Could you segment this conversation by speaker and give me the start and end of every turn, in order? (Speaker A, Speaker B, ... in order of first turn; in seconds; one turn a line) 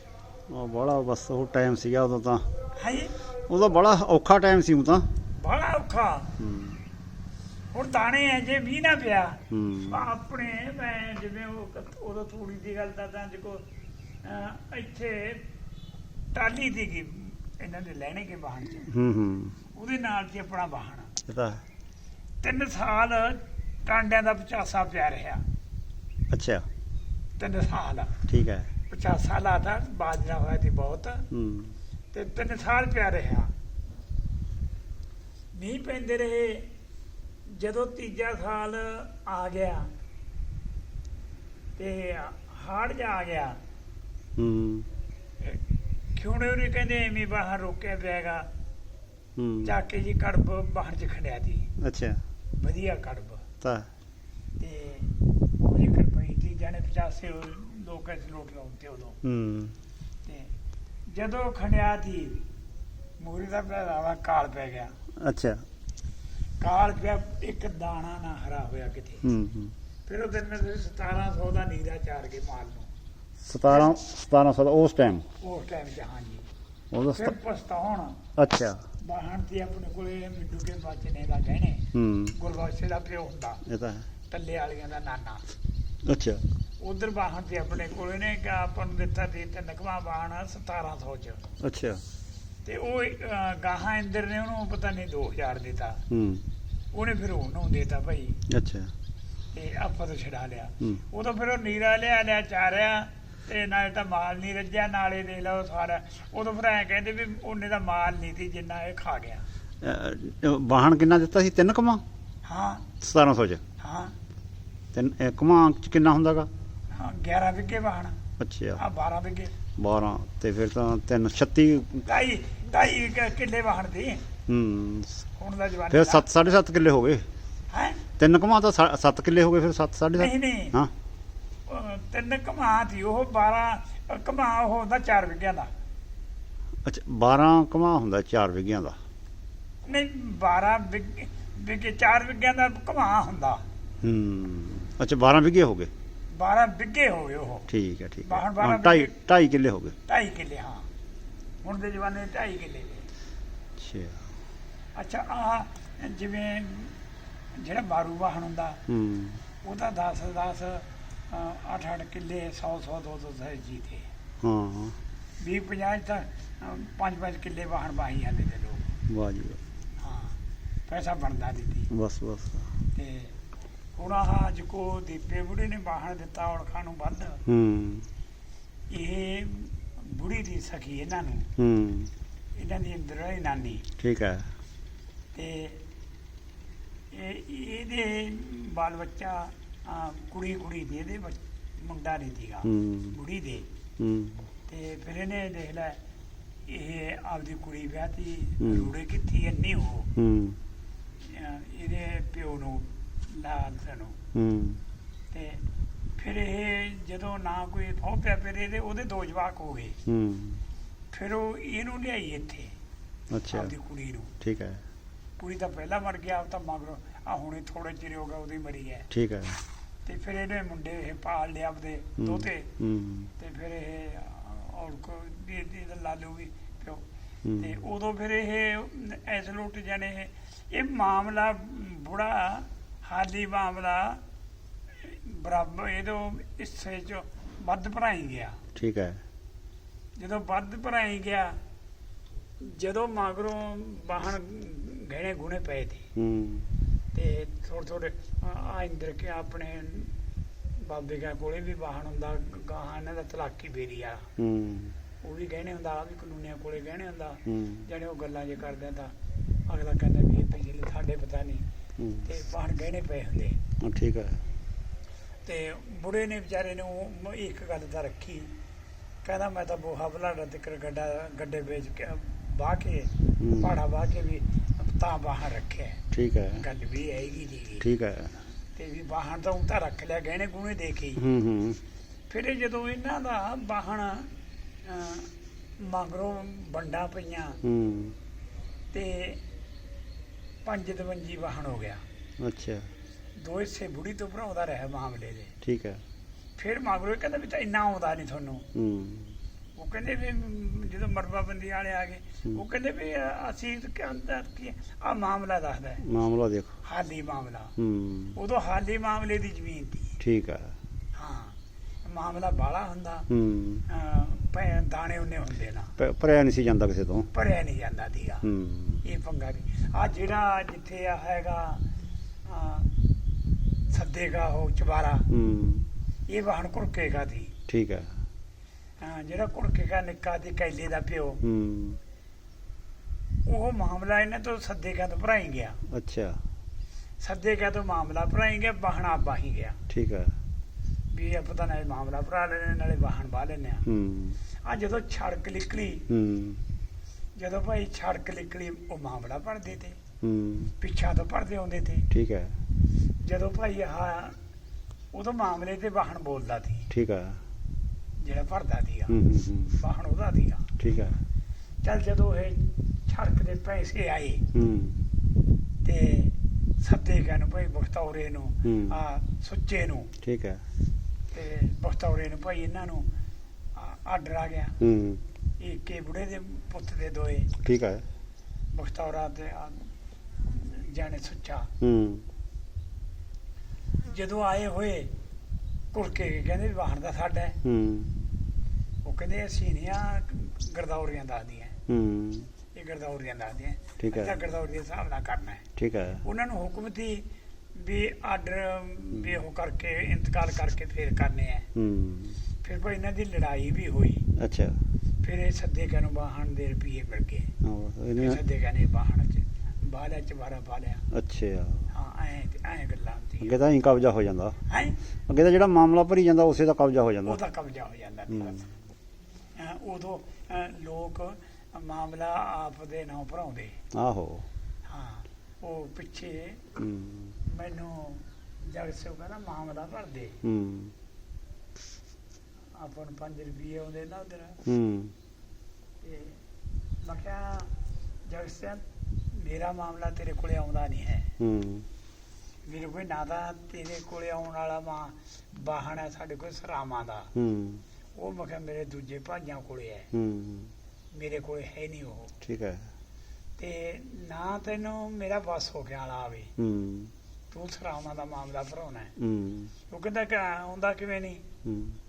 Speaker A: 0.5-2.5
Speaker B: 2.8-3.2
Speaker A: 3.5-5.0
Speaker B: 5.3-6.3
Speaker A: 6.4-6.8
Speaker B: 7.7-13.6
Speaker A: 9.5-10.0
Speaker B: 14.2-15.4
Speaker B: 16.3-18.9
Speaker A: 18.9-19.6
Speaker B: 19.7-21.1
Speaker A: 21.3-21.6
Speaker B: 22.4-25.4
Speaker A: 26.3-26.7
Speaker B: 27.4-28.1
Speaker A: 28.3-28.7
Speaker B: 28.9-31.2
Speaker A: 31.3-31.8
Speaker B: 32.1-33.5
Speaker B: 35.5-36.7
Speaker B: 37.5-39.9
Speaker B: 41.8-43.6
Speaker A: 44.4-44.9
Speaker B: 46.1-48.5
Speaker A: 49.4-49.8
Speaker B: 49.6-51.7
Speaker A: 51.8-52.2
Speaker B: 52.5-53.4
Speaker A: 53.6-53.9
Speaker B: 54.6-59.2
Speaker A: 59.2-59.8
Speaker B: 60.2-60.5
Speaker B: 61.1-62.4
Speaker B: 63.2-64.9
Speaker A: 65.2-65.6
Speaker B: 66.6-69.2
Speaker A: 69.2-69.7
Speaker B: 70.0-72.9
Speaker A: 73.4-75.3
Speaker B: 73.7-74.0
Speaker B: 75.4-76.5
Speaker A: 76.9-77.3
Speaker B: 77.1-78.2
Speaker A: 78.3-78.8
Speaker B: 79.0-81.8
Speaker A: 81.9-82.3
Speaker B: 82.3-83.6
Speaker A: 83.7-84.1
Speaker B: 84.3-85.4
Speaker A: 86.0-86.4
Speaker B: 86.8-91.5
Speaker A: 91.6-92.0
Speaker B: 92.6-96.0
Speaker A: 96.1-96.4
Speaker B: 96.9-98.4
Speaker A: 98.5-98.9
Speaker B: 99.5-109.4
Speaker A: 109.8-112.0
Speaker B: 112.4-112.9
Speaker A: 113.0-113.6
Speaker B: 113.8-114.1
Speaker A: 114.9-116.5
Speaker B: 116.9-118.2
Speaker A: 118.4-118.8
Speaker B: 118.8-119.5
Speaker A: 119.8-122.0
Speaker B: 122.0-124.2
Speaker A: 124.5-125.2
Speaker B: 125.4-126.4
Speaker A: 125.9-127.3
Speaker B: 127.7-128.0
Speaker A: 128.2-130.9
Speaker B: 130.2-130.8
Speaker B: 131.7-135.7
Speaker A: 136.8-139.0
Speaker B: 139.8-143.6
Speaker A: 144.0-145.9
Speaker B: 146.3-147.7
Speaker A: 147.7-149.9
Speaker B: 148.2-149.1
Speaker B: 150.1-150.8
Speaker B: 151.6-153.1
Speaker A: 153.8-154.2
Speaker B: 154.9-157.0
Speaker B: 157.6-158.8
Speaker A: 158.9-159.4
Speaker B: 159.6-164.1
Speaker A: 164.4-165.0
Speaker B: 165.4-168.9
Speaker A: 169.1-169.6
Speaker B: 170.0-171.9
Speaker A: 171.9-172.7
Speaker B: 172.9-173.3
Speaker B: 173.9-177.4
Speaker A: 177.4-178.1
Speaker B: 178.9-181.5
Speaker A: 181.6-182.1
Speaker B: 182.6-183.8
Speaker A: 184.0-184.5
Speaker B: 185.3-185.8
Speaker B: 187.1-193.7
Speaker A: 192.6-193.2
Speaker A: 194.0-194.4
Speaker B: 194.7-196.0
Speaker B: 196.7-200.1
Speaker A: 198.6-198.9
Speaker A: 200.2-200.6
Speaker B: 201.2-204.2
Speaker A: 204.3-204.8
Speaker B: 205.3-205.6
Speaker B: 206.2-210.0
Speaker A: 210.1-210.6
Speaker B: 211.1-212.7
Speaker A: 213.3-213.7
Speaker B: 213.5-214.3
Speaker A: 214.4-214.8
Speaker B: 215.4-219.1
Speaker A: 219.1-219.6
Speaker B: 220.1-222.7
Speaker A: 222.2-223.3
Speaker B: 223.4-227.0
Speaker A: 227.4-227.8
Speaker B: 227.6-234.2
Speaker B: 235.0-238.6
Speaker A: 238.7-239.2
Speaker B: 240.2-241.6
Speaker B: 242.6-246.1
Speaker A: 246.2-246.7
Speaker B: 247.1-250.1
Speaker B: 250.8-254.3
Speaker A: 254.4-254.9
Speaker B: 255.2-259.1
Speaker A: 257.5-257.9
Speaker B: 259.7-261.6
Speaker A: 262.0-262.3
Speaker B: 262.2-263.6
Speaker A: 263.8-264.4
Speaker B: 265.4-268.5
Speaker B: 269.2-276.0
Speaker A: 273.4-273.8
Speaker A: 276.1-276.6
Speaker B: 276.6-277.8
Speaker A: 277.8-278.4
Speaker B: 278.8-281.2
Speaker A: 281.2-281.8
Speaker B: 282.3-284.3
Speaker B: 284.8-287.6
Speaker A: 287.6-288.1
Speaker B: 288.9-289.4
Speaker B: 290.6-292.0
Speaker A: 292.4-292.9
Speaker B: 293.4-295.5
Speaker A: 295.6-296.0
Speaker B: 296.6-298.6
Speaker A: 298.7-299.3
Speaker B: 299.8-306.0
Speaker A: 306.0-306.8
Speaker B: 306.8-307.7
Speaker A: 307.8-308.4
Speaker B: 308.4-310.1
Speaker A: 310.2-310.7
Speaker B: 311.1-313.3
Speaker A: 313.3-313.9
Speaker B: 313.9-315.9
Speaker A: 316.0-317.3
Speaker B: 317.3-318.4
Speaker A: 318.4-319.0
Speaker B: 319.0-321.8
Speaker B: 322.4-322.9
Speaker B: 323.9-325.3
Speaker A: 325.3-325.9
Speaker B: 326.3-327.5
Speaker A: 327.7-328.1
Speaker B: 329.0-331.4
Speaker A: 331.4-332.0
Speaker B: 333.4-335.8
Speaker A: 335.9-336.4
Speaker B: 337.2-339.8
Speaker A: 339.9-340.3
Speaker B: 341.1-343.9
Speaker A: 343.9-344.4
Speaker B: 344.6-346.0
Speaker A: 346.1-346.6
Speaker B: 347.4-350.0
Speaker A: 350.2-350.7
Speaker B: 350.8-352.1
Speaker A: 352.1-352.6
Speaker B: 353.2-354.4
Speaker B: 355.1-356.9
Speaker A: 356.9-357.4
Speaker B: 358.2-359.2
Speaker A: 359.1-359.8
Speaker B: 359.7-360.7
Speaker A: 360.8-361.2
Speaker B: 361.8-364.4
Speaker A: 364.5-365.0
Speaker B: 365.8-370.1
Speaker A: 368.6-369.0
Speaker A: 370.2-370.6
Speaker B: 371.3-373.1
Speaker B: 373.8-374.8
Speaker A: 374.8-375.2
Speaker B: 375.6-377.5
Speaker A: 377.6-378.0
Speaker B: 378.7-379.9
Speaker B: 380.4-381.7
Speaker A: 381.8-382.2
Speaker B: 384.0-385.1
Speaker B: 385.9-387.6
Speaker A: 387.6-388.2
Speaker B: 389.0-391.8
Speaker A: 391.9-392.5
Speaker B: 392.7-395.6
Speaker A: 394.0-394.4
Speaker A: 395.8-396.2
Speaker B: 396.2-401.7
Speaker A: 401.7-402.4
Speaker B: 402.6-404.2
Speaker A: 404.4-404.8
Speaker B: 405.2-407.5
Speaker A: 407.6-408.4
Speaker B: 408.2-411.0
Speaker A: 411.1-411.9
Speaker B: 411.9-413.5
Speaker A: 413.4-414.6
Speaker B: 414.7-415.0
Speaker A: 415.3-417.4
Speaker B: 417.2-418.6
Speaker A: 418.3-418.6
Speaker B: 419.6-423.8
Speaker A: 423.9-424.5
Speaker B: 424.9-426.7
Speaker A: 426.8-427.4
Speaker B: 427.4-430.4
Speaker A: 430.4-430.9
Speaker B: 432.8-434.6
Speaker A: 434.6-435.1
Speaker B: 436.0-436.4
Speaker B: 437.0-437.7
Speaker B: 438.3-441.3
Speaker A: 441.4-441.9
Speaker B: 442.6-447.3
Speaker A: 447.3-447.8
Speaker B: 448.1-450.1
Speaker A: 450.1-450.7
Speaker B: 451.1-452.3
Speaker A: 452.4-452.9
Speaker B: 453.6-456.5
Speaker A: 456.6-457.1
Speaker B: 457.5-459.1
Speaker A: 459.2-459.7
Speaker B: 459.9-461.4
Speaker A: 461.6-462.0